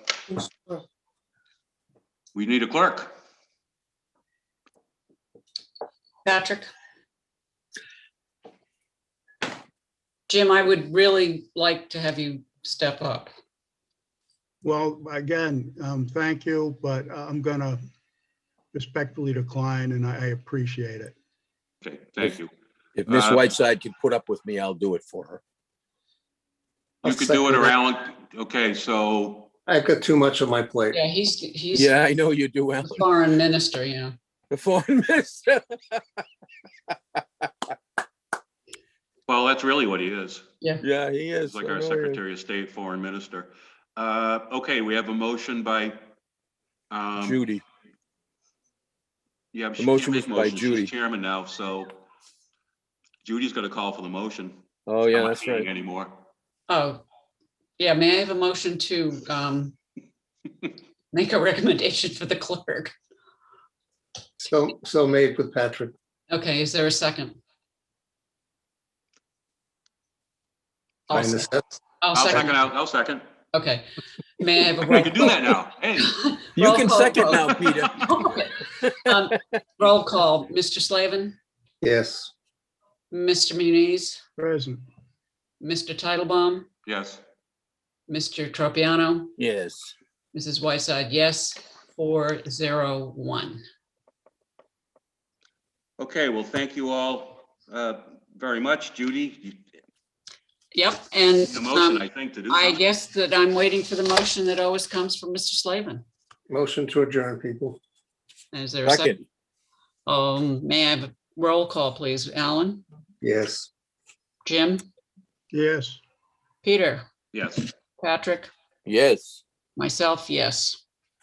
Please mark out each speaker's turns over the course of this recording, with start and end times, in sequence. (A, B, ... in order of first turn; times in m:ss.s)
0:00.3-0:00.8 A
0:02.3-0:03.1 B
0:06.2-0:06.7 C
0:10.3-0:13.3 C
0:14.6-0:17.8 D
0:18.7-0:21.2 D
0:21.8-0:22.5 B
0:23.0-0:25.4 E
0:23.1-0:23.5 B
0:27.0-0:27.8 A
0:27.0-0:29.5 B
0:29.7-0:31.0 A
0:30.9-0:31.9 C
0:31.7-0:33.1 E
0:32.8-0:34.2 C
0:34.5-0:36.2 E
0:39.3-0:40.4 B
0:40.8-0:42.2 E
0:41.4-0:46.0 B
0:46.9-0:47.4 B
0:47.2-0:47.6 E
0:49.5-0:52.0 B
0:49.8-0:50.9 E
0:53.2-0:54.6 B
0:54.9-0:55.7 E
0:55.1-0:56.1 B
0:56.7-0:57.0 C
0:57.8-0:59.8 C
1:01.1-1:02.9 C
1:04.4-1:05.9 A
1:06.3-1:07.4 C
1:11.1-1:11.5 C
1:11.1-1:11.8 A
1:12.0-1:12.6 C
1:12.1-1:13.2 B
1:13.5-1:13.9 C
1:14.4-1:15.4 C
1:14.8-1:16.2 B
1:16.0-1:21.4 C
1:16.6-1:18.1 E
1:17.3-1:17.9 B
1:21.8-1:22.3 A
1:23.1-1:24.2 C
1:24.4-1:24.8 D
1:25.6-1:26.7 C
1:26.9-1:27.2 B
1:28.1-1:29.4 C
1:29.4-1:30.0 E
1:30.3-1:33.6 C
1:36.0-1:39.6 B
1:40.7-1:46.0 C
1:41.5-1:42.8 B
1:46.5-1:47.8 A
1:48.5-1:49.2 C
1:48.8-1:49.2 E
1:50.1-1:52.8 C
1:53.2-1:53.7 A
1:54.4-1:54.8 C
1:55.5-1:56.0 D
1:56.6-1:57.1 C
1:57.3-1:57.7 B
1:58.0-1:58.5 C
1:58.9-1:59.4 E
1:59.8-2:00.8 C